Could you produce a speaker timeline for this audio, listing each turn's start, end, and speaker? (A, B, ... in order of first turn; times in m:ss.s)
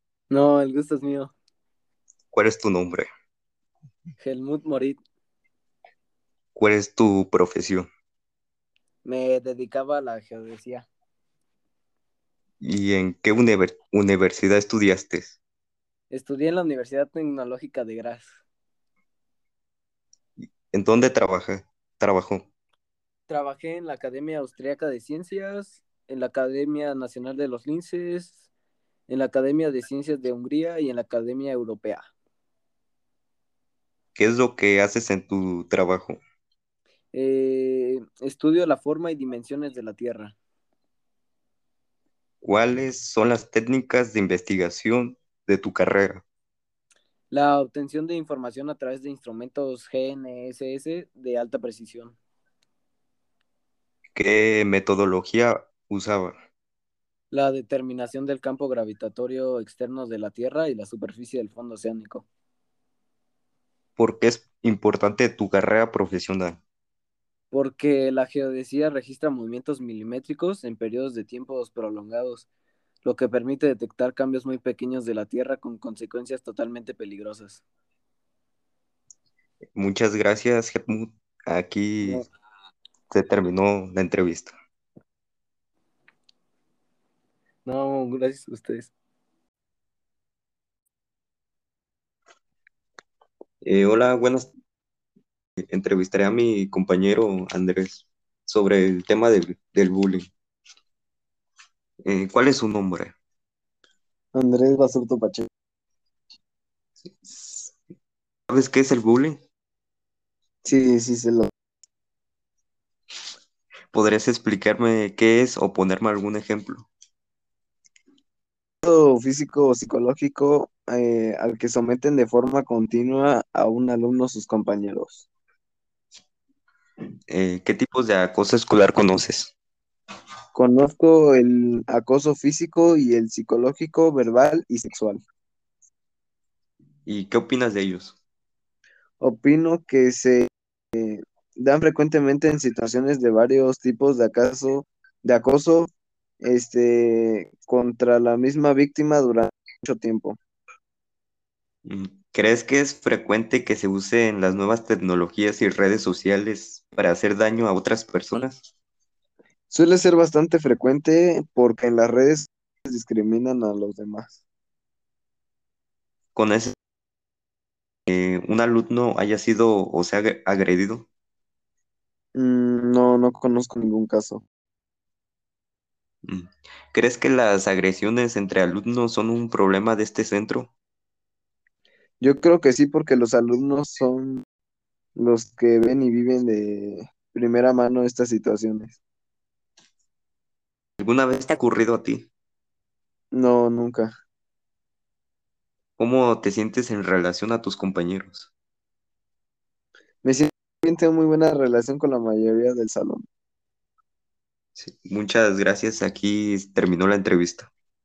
0:00.3-0:01.3 A
0:02.3-0:03.1 B
0:04.2-0:05.0 A
0:06.5-0:07.9 B
0:09.0-0:10.9 A
0:12.6-0:15.4 B
0:16.1-0:18.4 A
0:20.4-0:22.5 B
0:23.3-0:28.4 A
0:29.1-0:32.1 A
0:34.1-0:36.2 B
0:37.1-0:40.4 A
0:42.4-0:46.2 B
0:47.3-0:52.2 A
0:54.1-0:56.4 B
0:57.3-1:02.2 A
1:04.0-1:06.6 B
1:07.5-1:12.4 A
1:13.0-1:17.6 A
1:19.7-1:22.2 B
1:23.1-1:24.5 B
1:27.6-1:28.9 A
1:33.6-1:34.5 B
1:35.7-1:40.3 B
1:42.0-1:43.2 B
1:44.3-1:45.5 A
1:47.2-1:47.7 B
1:48.5-1:49.4 B
1:50.6-1:51.5 A
1:53.9-1:56.9 B
1:58.8-2:05.2 A
2:07.3-2:09.5 B
2:10.5-2:15.2 A
2:17.1-2:18.2 B
2:19.2-2:25.9 A
2:26.4-2:30.4 A
2:31.8-2:38.6 B
2:39.7-2:44.4 A
2:46.3-2:46.8 B
2:48.1-2:51.1 B
2:52.3-2:54.4 A
2:56.2-3:00.7 B
3:02.2-3:04.4 A
3:05.2-3:09.0 A
3:11.0-3:12.3 B
3:13.3-3:14.1 A
3:16.0-3:18.5 B
3:20.2-3:23.2 A
3:24.8-3:27.7 B